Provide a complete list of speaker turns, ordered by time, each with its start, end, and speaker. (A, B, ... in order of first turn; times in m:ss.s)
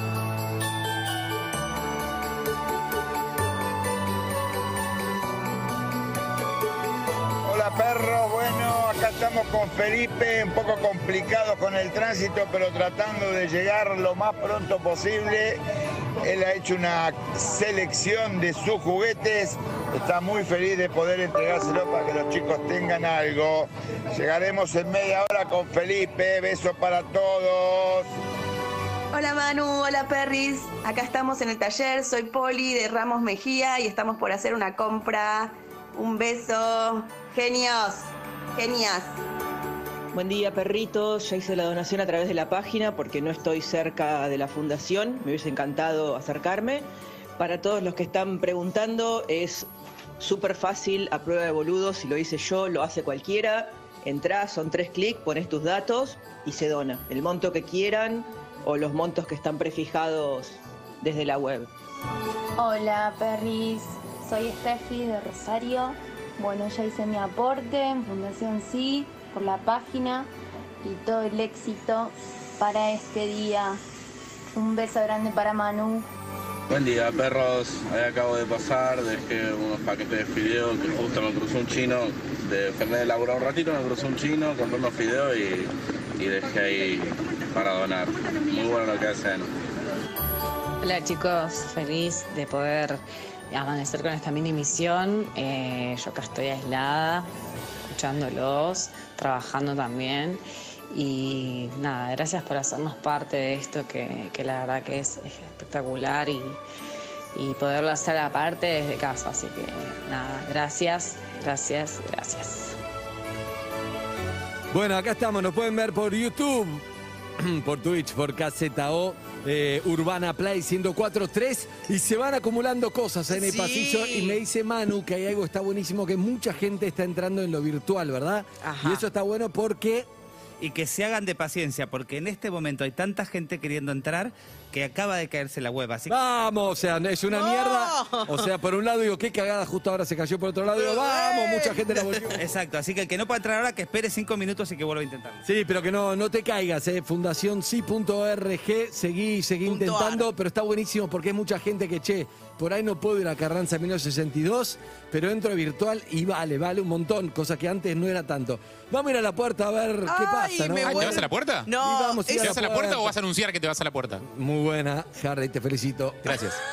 0:07.4-0:15.6 A
0:16.2-0:28.1 A
0:29.1-0:39.2 B
0:40.1-0:46.9 C
0:47.4-0:49.7 C
0:50.2-1:01.7 C
1:02.6-1:10.3 D
1:10.8-1:13.8 D
1:14.6-1:16.0 D
1:16.7-1:29.5 E
1:30.8-1:37.3 F
1:37.9-1:46.6 F
1:47.3-1:52.8 F
1:54.7-1:56.8 G
1:57.4-2:10.1 G
2:03.3-2:04.4 H
2:08.6-2:09.0 H
2:10.6-2:16.1 I
2:16.1-2:22.4 G
2:17.3-2:18.4 H
2:20.8-2:21.8 H
2:22.3-2:25.4 I
2:25.4-2:41.2 G
2:29.7-2:30.2 H
2:40.1-2:42.5 H
2:40.8-2:41.7 J
2:41.8-2:43.1 G
2:42.4-2:44.2 J
2:44.2-2:46.6 G